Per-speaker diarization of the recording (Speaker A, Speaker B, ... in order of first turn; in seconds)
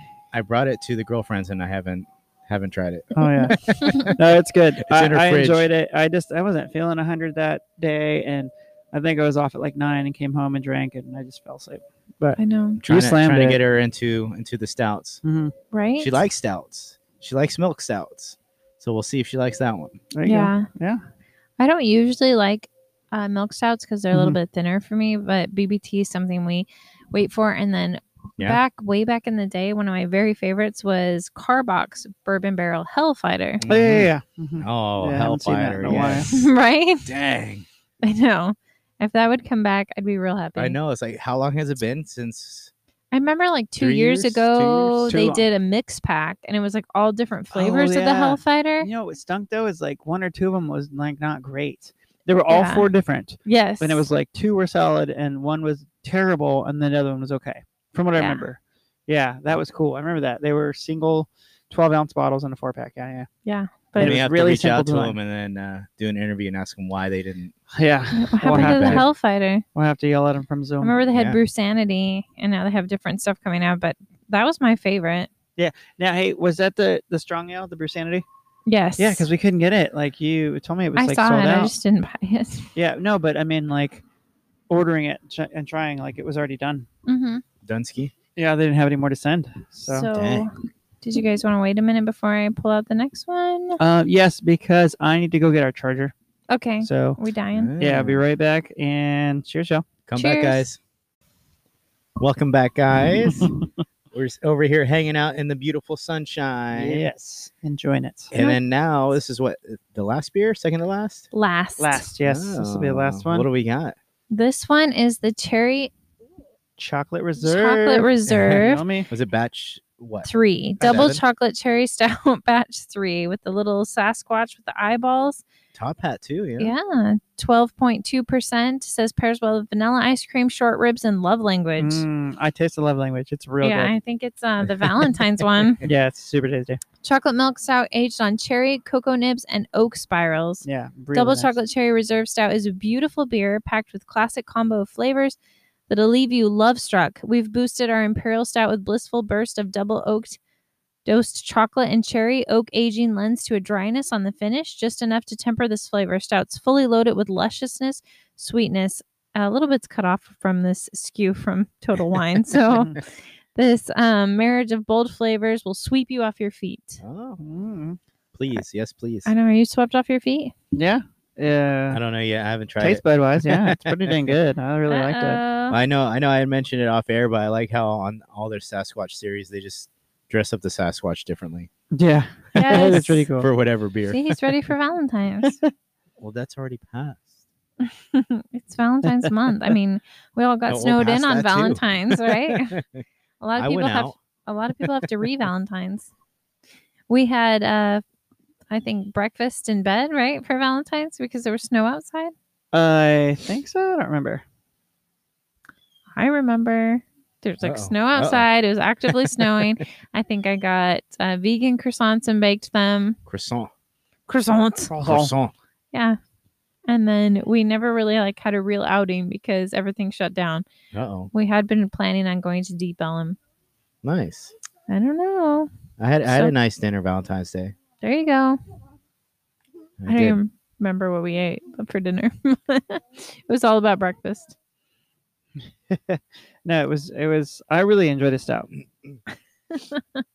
Speaker A: 0.3-4.2, 4.8-5.7, 12.8-15.2, 16.0-20.0, 33.6-36.5, 37.0-37.6, 40.5-42.7, 43.8-45.1, 64.0-67.5, 68.4-69.0, 71.1-71.4, 87.6-88.1, 90.1-90.5, 97.5-98.2, 100.1-100.8, 102.2-103.5, 104.1-107.1, 108.3-111.3, 112.2-113.9, 118.3-120.3, 120.8-121.2, 125.7-126.7, 134.8-135.4, 167.0-167.4, 168.3-169.3, 171.9-174.3, 175.7-181.7, 182.9-184.2, 186.2-187.4, 190.7-193.0, 193.6-194.2, 207.6-208.4, 209.1-209.7, 213.2-213.7, 215.0-215.5, 220.9-221.3, 224.0-224.5, 226.0-227.7, 230.0-230.4, 238.8-239.2
Speaker B: 3.1-13.6, 15.2-15.5, 20.1-21.0, 24.1-24.4, 33.7-36.3, 45.1-45.5, 47.5-63.3, 64.0-65.2, 67.7-69.1, 69.7-71.0, 75.6-78.2, 79.0-81.7, 82.7-84.0, 84.7-86.8, 88.3-90.1, 93.8-96.1, 96.8-97.2, 97.8-99.8, 103.2-103.6, 106.7-108.3, 111.8-113.5, 116.8-119.1, 120.8-121.1, 131.8-133.9, 135.8-136.8, 140.6-141.6, 167.4-168.0, 170.7-172.0, 172.8-175.4, 181.9-183.5, 185.4-185.7, 202.7-204.4, 214.9-215.3, 235.9-238.7
Speaker C: 3.6-4.1, 12.4-12.8, 15.7-16.2, 20.2-20.7, 21.6-33.6, 36.2-37.1, 38.0-40.8, 43.1-48.9, 52.5-52.9, 53.4-54.0, 58.1-58.5, 63.4-64.2, 68.1-69.6, 70.8-75.3, 78.7-79.3, 81.0-82.7, 87.0-87.4, 89.9-93.8, 96.5-97.7, 100.2-100.7, 108.3-108.6, 111.3-112.0, 114.3-115.9, 117.4-118.8, 120.2-125.4, 126.6-132.0, 133.6-135.8, 137.0-145.4, 145.9-150.4, 151.0-167.0, 169.2-170.5, 174.9-175.8, 182.5-183.3, 184.1-185.6, 187.8-192.7, 193.4-196.1, 197.1-198.0, 198.7-202.3, 206.2-213.2, 214.3-214.9, 215.9-216.2, 216.9-220.7, 221.3-223.4, 224.9-225.7, 226.2-226.5, 228.0-228.6, 230.1-234.5, 239.7-240.2